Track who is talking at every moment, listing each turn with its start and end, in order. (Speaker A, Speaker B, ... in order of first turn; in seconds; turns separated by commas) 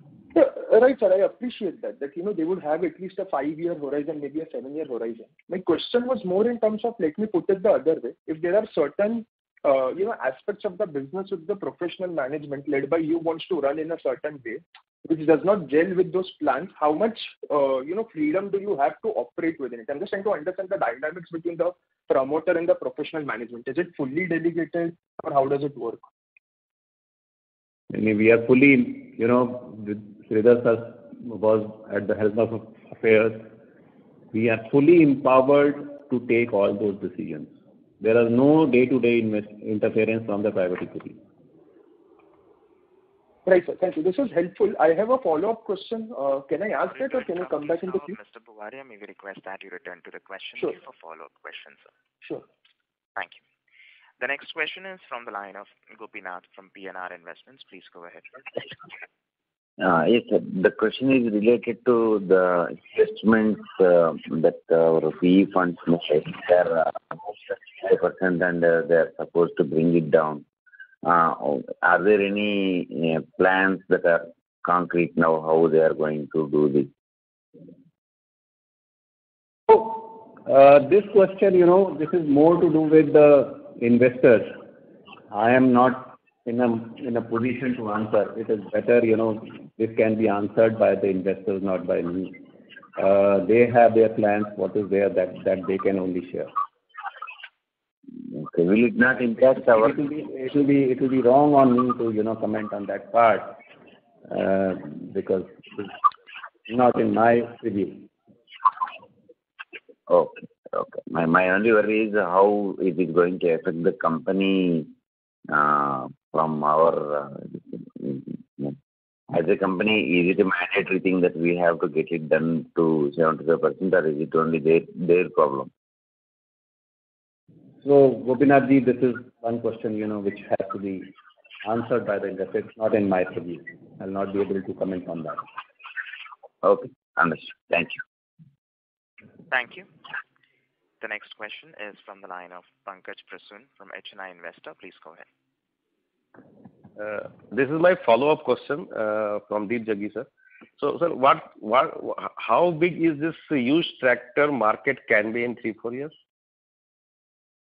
Speaker A: 0.3-26.0, Speaker B: 27.9-33.5, Speaker B: 34.3-41.2, Speaker A: 43.5-48.1, Speaker C: 46.8-51.9, Speaker C: 54.2-58.3, Speaker D: 59.8-70.5, Speaker D: 71.0-76.9, Speaker B: 79.7-84.6, Speaker B: 85.3-92.4, Speaker B: 93.0-96.5, Speaker D: 98.3-100.0, Speaker B: 99.8-103.6, Speaker B: 104.3-106.0, Speaker B: 106.7-108.1, Speaker D: 110.1-114.9, Speaker D: 115.5-118.8, Speaker D: 119.3-125.7, Speaker B: 127.8-135.5, Speaker D: 136.6-138.0, Speaker C: 139.5-139.9, Speaker C: 141.0-145.3, Speaker E: 147.0-156.1